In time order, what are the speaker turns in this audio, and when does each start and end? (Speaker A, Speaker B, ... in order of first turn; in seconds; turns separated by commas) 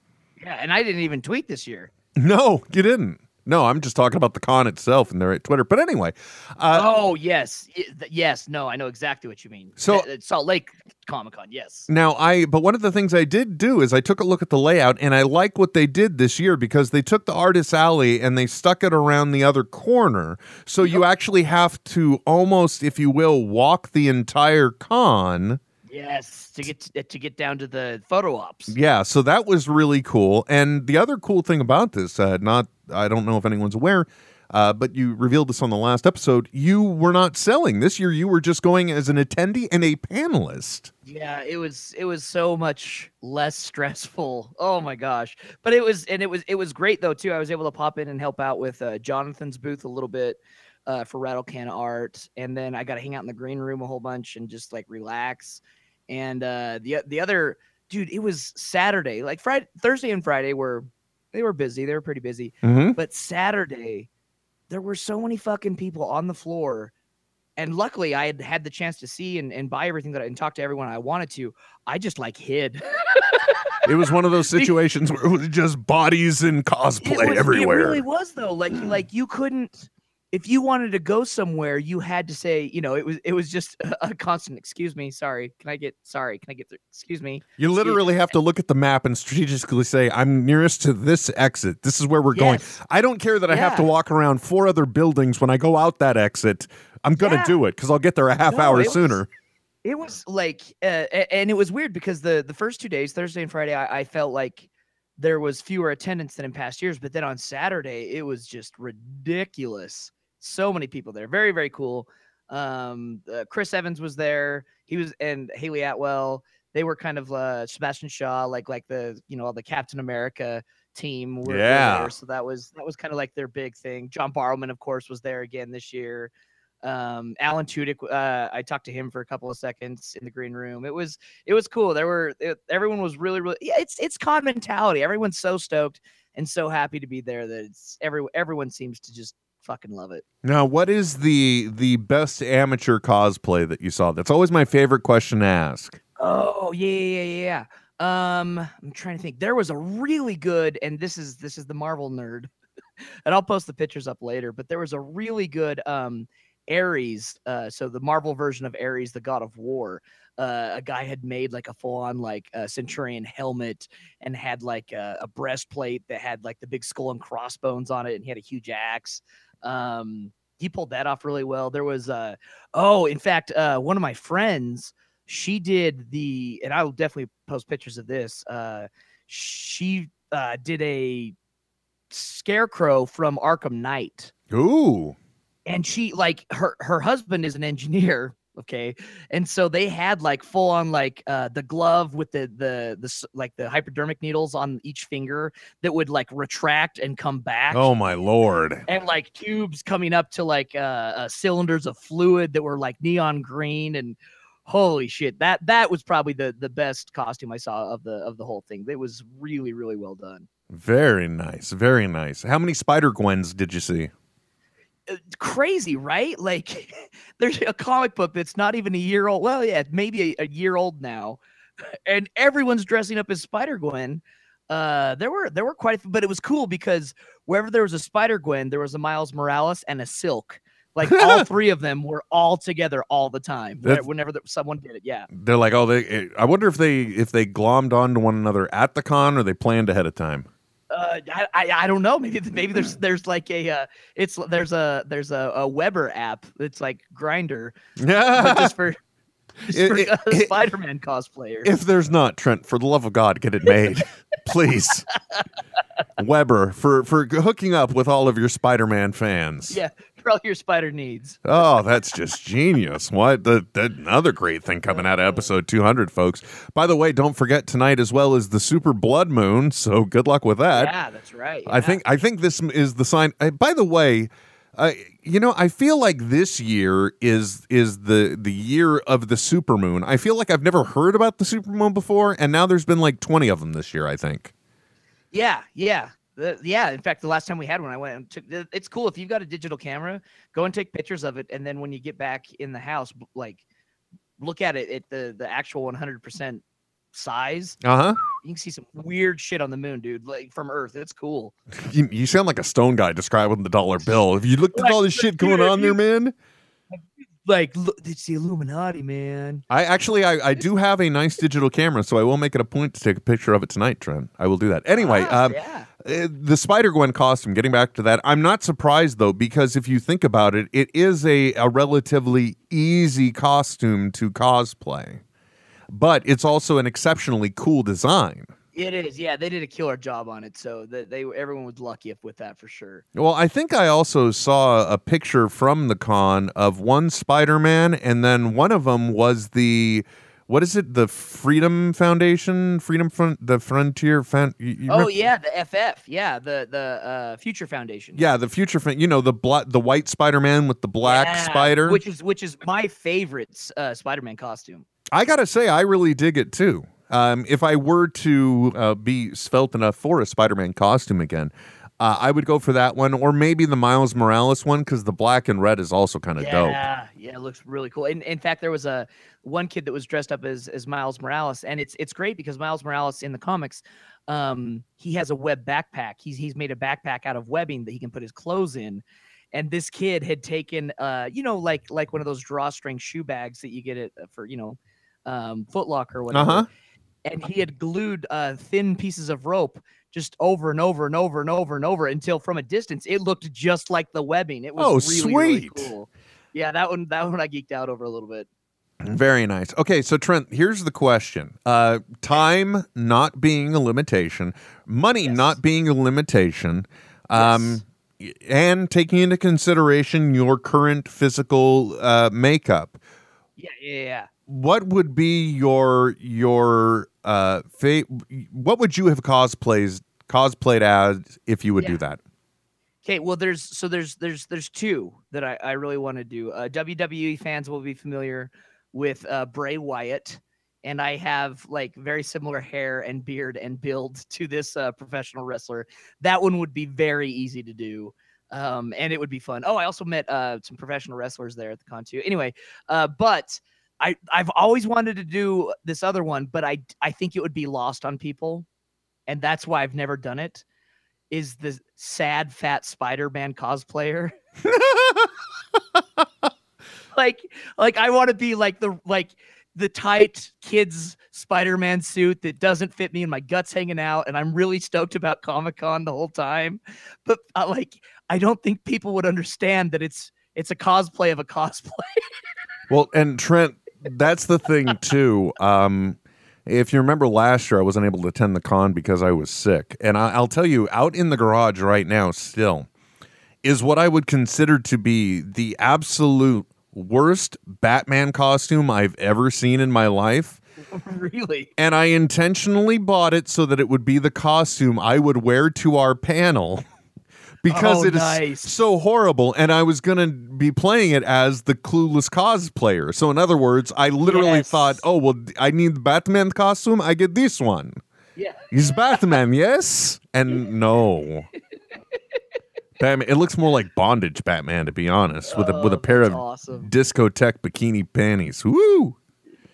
Speaker A: 0.4-1.9, Speaker B: 2.2-6.9, Speaker A: 6.7-11.9, Speaker B: 9.8-10.1, Speaker B: 11.9-25.6, Speaker A: 25.9-28.7, Speaker B: 28.7-40.9, Speaker A: 41.0-64.1, Speaker B: 62.6-63.0, Speaker A: 64.7-66.9, Speaker A: 67.6-73.8, Speaker B: 73.8-78.0, Speaker A: 77.0-88.0, Speaker B: 87.6-99.3, Speaker A: 92.3-92.7, Speaker A: 93.5-93.9, Speaker A: 97.2-97.6, Speaker A: 98.5-99.2, Speaker A: 99.8-126.3, Speaker B: 121.4-122.1, Speaker A: 126.8-140.2, Speaker B: 140.4-146.0, Speaker A: 146.2-152.5, Speaker A: 153.2-181.3, Speaker A: 182.1-184.3, Speaker B: 184.5-185.2, Speaker A: 185.7-197.9, Speaker B: 197.7-198.8, Speaker A: 198.9-210.5, Speaker B: 210.7-214.1, Speaker A: 215.1-235.3, Speaker B: 231.1-231.4, Speaker B: 235.3-240.5, Speaker A: 240.9-247.8, Speaker B: 248.0-248.7, Speaker A: 248.3-249.0, Speaker A: 249.6-251.7, Speaker B: 249.7-250.5, Speaker B: 251.6-255.1, Speaker B: 256.2-259.8, Speaker A: 259.7-261.4, Speaker B: 261.4-270.9, Speaker A: 264.9-265.4, Speaker A: 270.7-272.0, Speaker B: 271.7-284.5, Speaker A: 285.3-293.6, Speaker A: 294.4-297.8, Speaker B: 297.8-298.2, Speaker A: 298.4-301.5, Speaker B: 301.7-306.3, Speaker A: 304.7-306.0, Speaker A: 306.9-309.6, Speaker B: 309.7-325.2, Speaker A: 315.0-315.9, Speaker B: 325.9-328.5, Speaker A: 328.7-333.0, Speaker B: 333.1-345.1, Speaker A: 344.9-348.2, Speaker B: 348.1-352.0, Speaker A: 351.0-354.8, Speaker B: 355.1-366.8, Speaker A: 366.4-386.7, Speaker B: 386.3-386.7, Speaker A: 387.2-398.5, Speaker B: 394.8-395.9, Speaker B: 399.0-413.0, Speaker A: 405.2-405.5, Speaker A: 407.4-407.8, Speaker A: 413.6-414.3, Speaker B: 414.5-422.2, Speaker A: 423.0-448.6, Speaker A: 449.3-450.6, Speaker A: 451.3-454.3, Speaker B: 454.6-455.3, Speaker A: 457.1-472.2, Speaker B: 472.9-482.9, Speaker B: 483.6-490.6, Speaker A: 490.9-491.7, Speaker B: 491.8-496.8, Speaker B: 497.6-508.0, Speaker A: 497.7-498.7, Speaker A: 504.2-505.0, Speaker A: 508.4-508.7, Speaker B: 508.7-511.5, Speaker B: 513.0-519.2, Speaker A: 515.5-516.9